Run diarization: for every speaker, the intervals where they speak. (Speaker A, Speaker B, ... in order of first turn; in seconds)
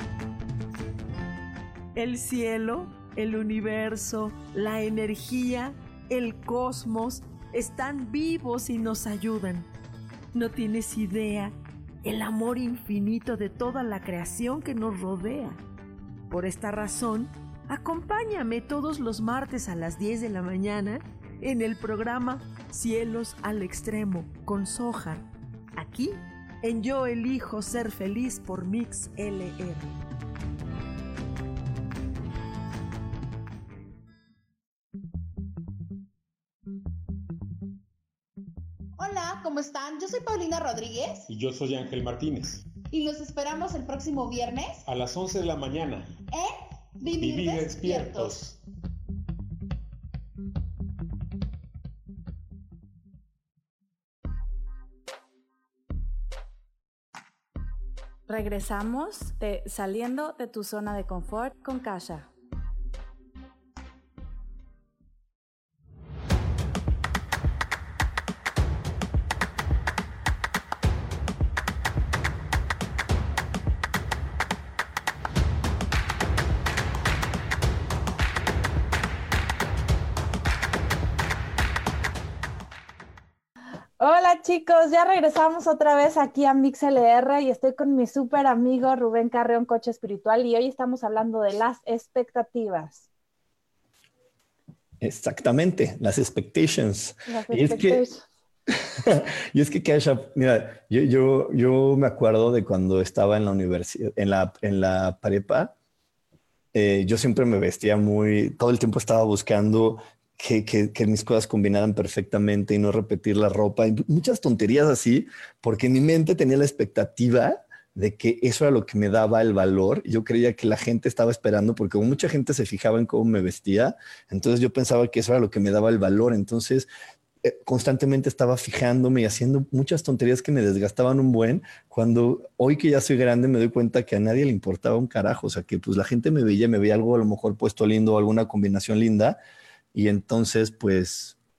Speaker A: 1.9-9.7, 10.3-15.6, 16.3-25.2, 25.8-29.9
Speaker B: 39.0-41.3, 42.9-44.8, 46.3-48.4
Speaker C: 41.3-42.7, 44.9-46.2, 47.2-48.6
Speaker D: 58.3-62.3, 84.0-93.1, 97.3-98.2
Speaker E: 95.0-98.0, 99.0-105.7, 106.7-126.9, 127.4-139.4, 139.9-141.4